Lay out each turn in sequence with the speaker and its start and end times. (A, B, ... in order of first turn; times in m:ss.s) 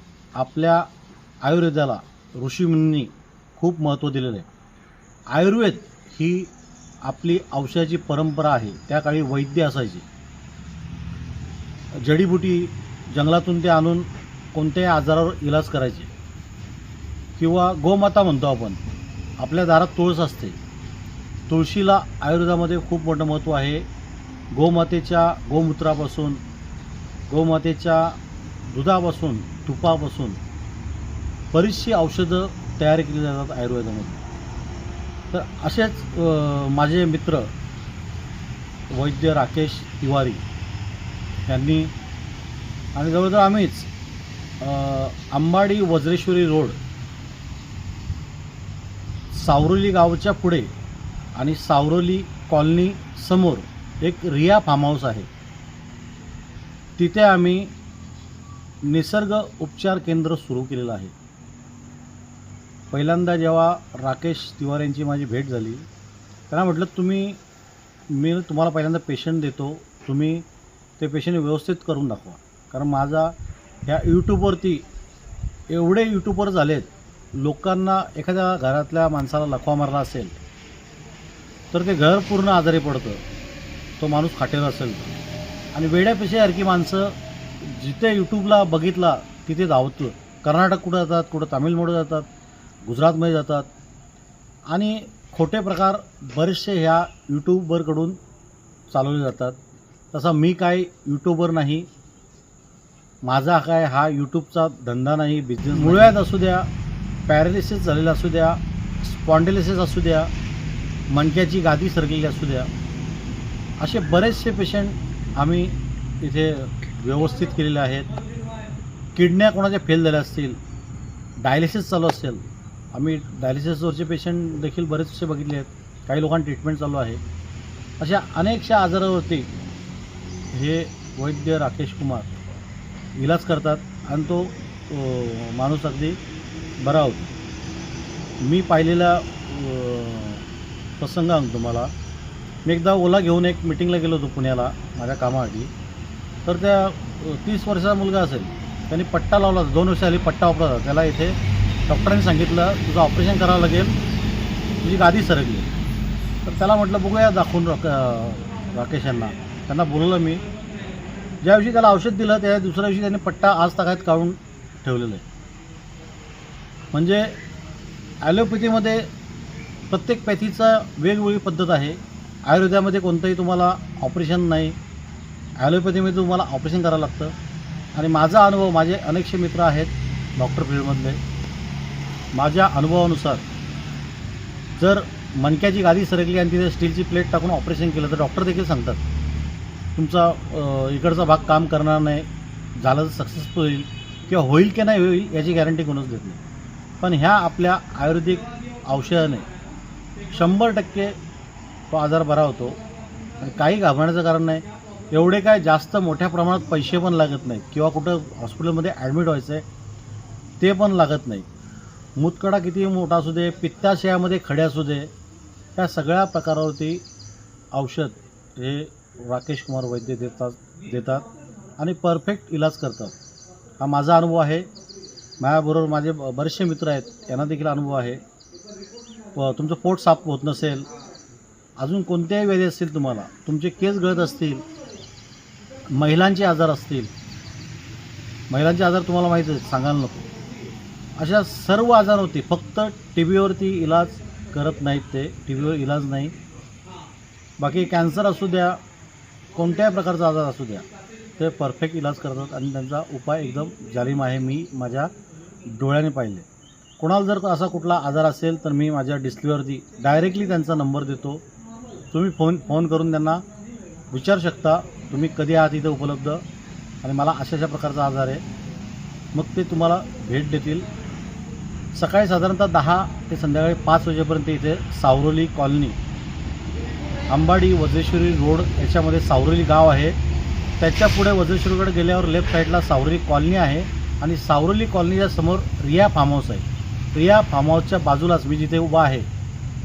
0:00.4-0:00.9 A
0:01.4-0:04.5 A
0:05.3-0:06.5 A
0:07.0-0:10.0 A
0:12.0-0:16.1 A
0:17.4-0:18.8 A
0:19.4-0:20.6 A
0:21.5-0:23.8 A
0:24.5-0:26.4 A
0:27.3-0:30.4 A
0:31.5-0:34.2 A
0:35.3-0:37.5 A
0:38.9-0:40.4 A
0:41.5-0:41.9 A
0:43.0-0:43.9 A
0:44.6-0:46.8 A
0:49.3-0:50.7 A
0:51.4-0:55.3 A
0:57.0-0:57.7 A
0:58.8-1:01.1 A
1:02.9-1:05.8 A
1:06.5-1:07.4 A
1:08.1-1:10.4 A
1:11.0-1:13.3 A
1:13.8-1:14.8 A
1:15.7-1:20.4 A
1:21.7-1:23.2 A
1:24.0-1:25.1 A
1:25.7-1:32.3 A
1:32.8-1:33.7 A
1:34.7-1:38.2 A
1:38.9-1:39.6 A
1:40.1-1:41.9 A
1:43.2-1:46.7 A
1:47.3-1:50.3 A
1:51.1-1:52.7 A
1:53.8-1:58.1 A
1:59.2-2:00.6 A
2:01.4-2:07.2 A
2:08.0-2:09.5 A
2:10.5-2:12.3 A
2:13.2-2:16.2 A
2:16.8-2:17.3 A
2:18.4-2:20.4 A
2:21.0-2:21.9 A
2:22.6-2:25.7 A
2:26.4-2:33.9 A
2:34.8-2:35.7 A
2:36.4-2:40.4 A
2:41.4-2:45.2 A
2:46.9-2:47.4 A
2:48.2-2:49.1 A
2:49.9-2:54.8 A
2:55.6-2:57.3 A
2:57.9-3:01.2 A
3:02.3-3:03.4 A
3:04.8-3:09.0 A
3:10.0-3:16.4 A
3:17.0-3:19.5 A
3:20.3-3:21.1 A
3:21.9-3:22.8 A
3:23.4-3:29.6 A
3:30.6-3:31.5 A
3:32.2-3:35.1 A
3:35.8-3:37.0 A
3:37.7-3:43.1 A
3:43.8-3:44.7 A
3:45.4-3:48.2 A
3:49.3-3:50.9 A
3:51.8-3:54.7 A
3:55.9-3:57.1 A
3:58.5-4:00.3 A
4:01.2-4:06.3 A
4:07.6-4:08.8 A
4:09.5-4:15.1 A
4:15.6-4:16.4 A
4:17.0-4:21.4 A
4:22.1-4:23.4 A
4:24.1-4:26.4 A
4:27.0-4:28.4 A
4:29.3-4:30.9 A
4:31.9-4:36.0 A
4:37.3-4:40.2 A
4:40.8-4:49.3 A